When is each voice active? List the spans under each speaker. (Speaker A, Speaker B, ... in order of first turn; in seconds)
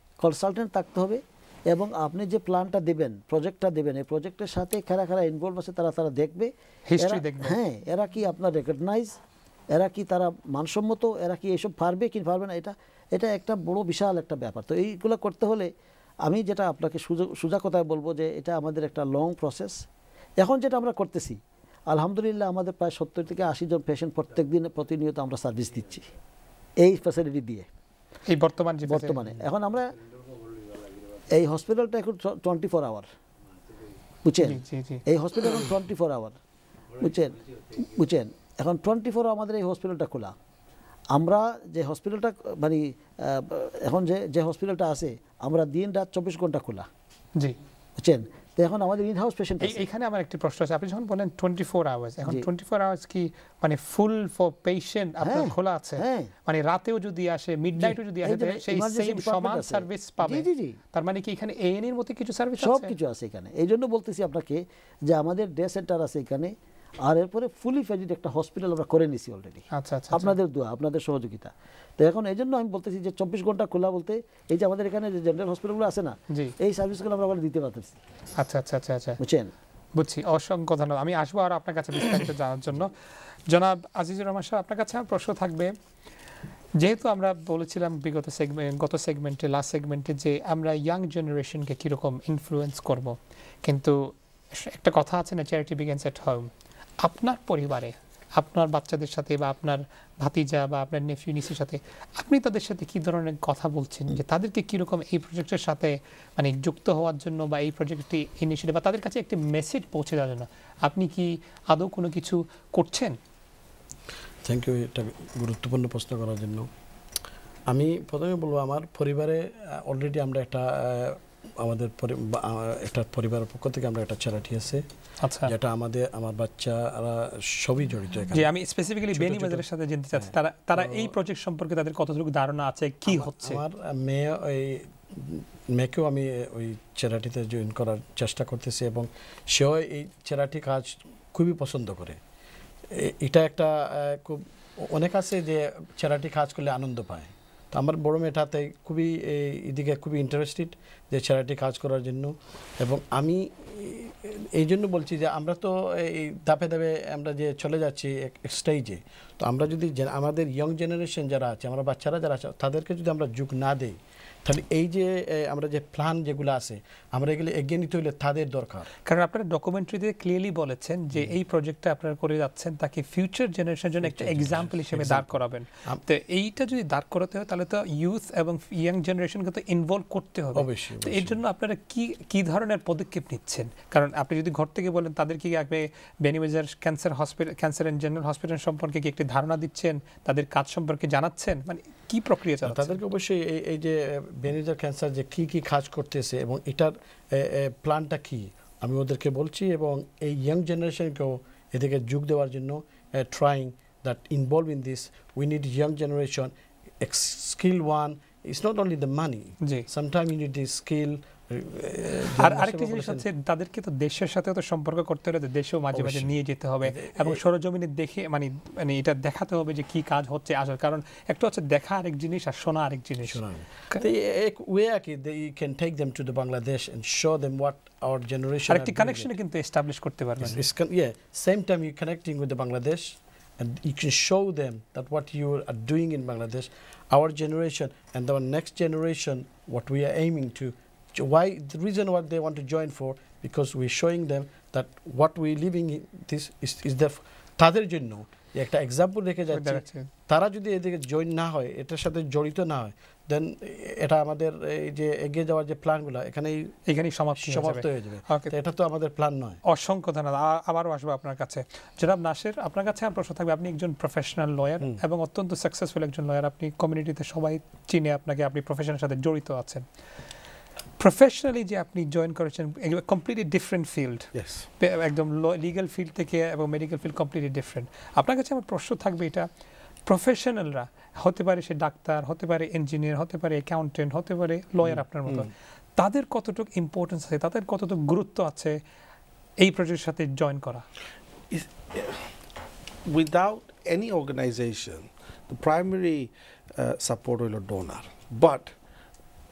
Speaker A: 0.2-9.2, 9.7-15.7, 16.2-19.8, 20.4-26.1, 26.8-27.7, 28.8-30.0, 31.3-33.1, 34.2-36.4, 36.9-40.4, 41.1-46.9, 48.0-49.8, 55.2-56.3, 57.8-60.8, 62.6-78.0, 79.2-79.5
Speaker B: 6.9-7.6, 28.3-29.4, 34.4-35.0, 49.6-62.9, 69.7-70.3, 78.3-79.2, 80.0-85.7, 86.8-113.2, 125.2-125.5, 128.3-133.6, 169.1-192.9, 209.6-209.9, 212.4-224.0, 228.7-230.6, 249.5-250.1, 256.9-258.5, 259.6-269.8, 271.0-279.5, 280.1-288.8, 289.6-290.8
Speaker C: 114.4-116.7, 117.7-124.8, 125.5-128.5, 129.1-129.6, 130.1-131.1, 133.1-142.2, 142.9-168.9, 174.0-175.3, 180.5-181.4, 192.6-213.2, 215.9-216.3, 216.8-217.4, 223.3-229.3, 230.4-256.7, 257.4-259.6
Speaker D: 274.3-274.6, 291.5-292.3, 293.1-298.7